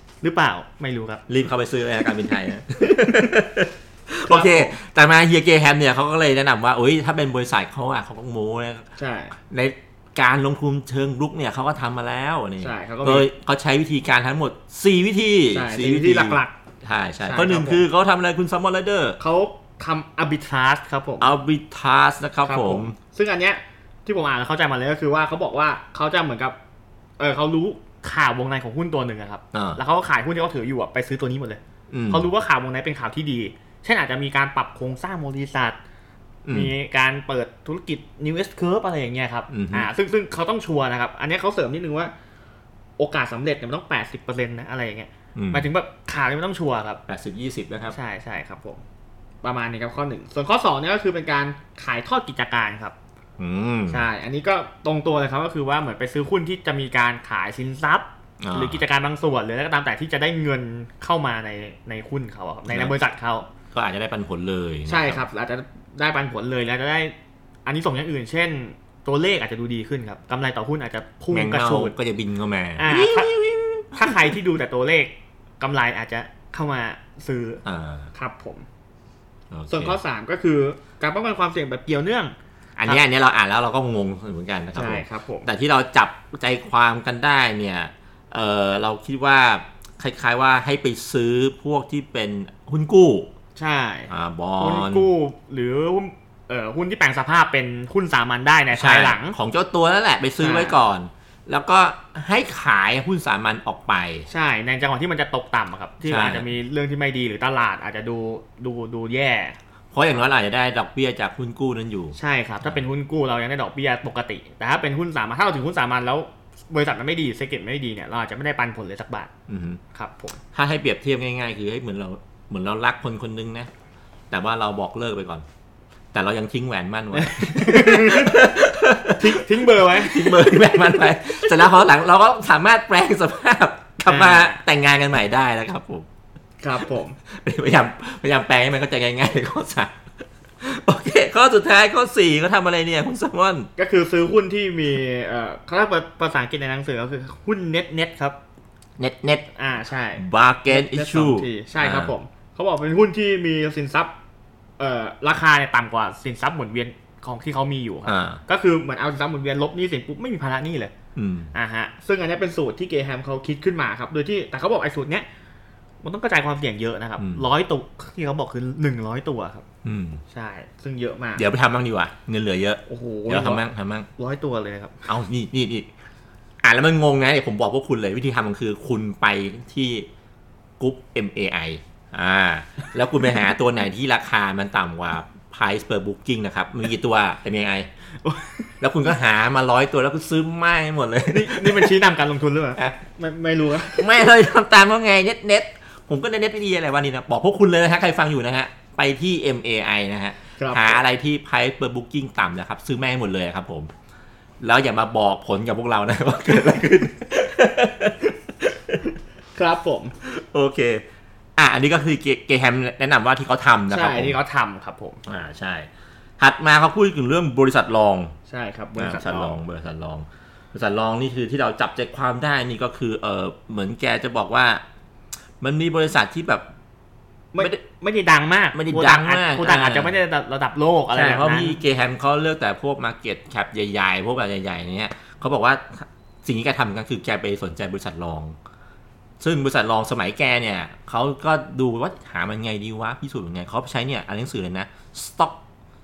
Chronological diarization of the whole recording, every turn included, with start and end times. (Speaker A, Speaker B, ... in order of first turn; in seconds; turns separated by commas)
Speaker A: 0.2-1.2, Speaker B: 1.3-8.9, Speaker A: 4.2-4.7, Speaker A: 9.0-9.3, Speaker B: 9.4-19.2, Speaker A: 12.6-13.3, Speaker A: 15.5-16.5, Speaker A: 17.2-17.8, Speaker A: 19.2-21.3, Speaker B: 21.2-22.9, Speaker A: 22.4-26.6, Speaker A: 27.2-35.8, Speaker B: 29.5-29.8, Speaker B: 31.9-32.3, Speaker B: 36.4-36.7, Speaker A: 36.5-42.1, Speaker B: 39.5-39.9, Speaker A: 43.0-47.0, Speaker B: 45.4-45.7, Speaker B: 47.1-48.0, Speaker A: 47.9-48.8, Speaker A: 49.4-52.9, Speaker B: 53.4-54.1, Speaker A: 53.9-63.5, Speaker B: 58.4-58.8, Speaker B: 62.7-62.9, Speaker B: 63.7-65.2, Speaker A: 64.8-67.1, Speaker A: 67.7-71.9, Speaker B: 71.3-74.4, Speaker A: 72.8-73.3, Speaker A: 73.9-77.6, Speaker B: 77.6-78.1, Speaker A: 78.1-78.6, Speaker B: 79.5-80.0, Speaker A: 79.7-82.3, Speaker B: 82.8-93.3, Speaker A: 84.7-85.5, Speaker A: 93.5-99.3, Speaker B: 94.1-95.1, Speaker B: 98.7-104.3, Speaker A: 100.4-100.8, Speaker A: 104.3-109.6, Speaker B: 106.0-106.5, Speaker B: 109.9-112.8, Speaker A: 112.2-119.3, Speaker B: 119.5-119.8, Speaker A: 119.9-120.4, Speaker B: 120.5-123.7, Speaker B: 124.3-125.4, Speaker B: 126.1-136.1, Speaker A: 127.1-128.4, Speaker A: 129.2-130.8, Speaker A: 134.1-134.6, Speaker A: 136.6-137.2, Speaker B: 137.3-139.9, Speaker B: 140.6-143.7, Speaker A: 143.8-148.4, Speaker B: 149.0-149.5, Speaker A: 149.5-154.1, Speaker B: 150.2-152.1, Speaker A: 154.8-160.9, Speaker B: 158.0-158.4, Speaker B: 161.1-161.5, Speaker A: 161.5-165.2, Speaker A: 166.0-169.6, Speaker B: 167.2-167.4, Speaker B: 169.8-170.2, Speaker A: 170.3-171.4, Speaker B: 171.4-174.1, Speaker A: 172.9-173.6, Speaker A: 174.2-175.1, Speaker B: 175.1-175.9, Speaker B: 176.6-180.1, Speaker B: 180.8-187.9, Speaker A: 188.2-188.7, Speaker B: 188.8-191.9, Speaker A: 191.3-194.1, Speaker B: 193.8-203.9, Speaker A: 200.6-201.0, Speaker B: 204.6-209.0, Speaker A: 209.5-210.1, Speaker B: 210.2-211.0, Speaker B: 211.6-214.4, Speaker A: 213.9-215.2, Speaker B: 215.2-215.9, Speaker B: 216.4-218.3, Speaker A: 218.5-219.6, Speaker B: 218.9-224.8, Speaker B: 225.6-226.6, Speaker A: 227.5-231.8, Speaker B: 228.7-230.1, Speaker B: 231.1-238.6, Speaker B: 239.4-245.6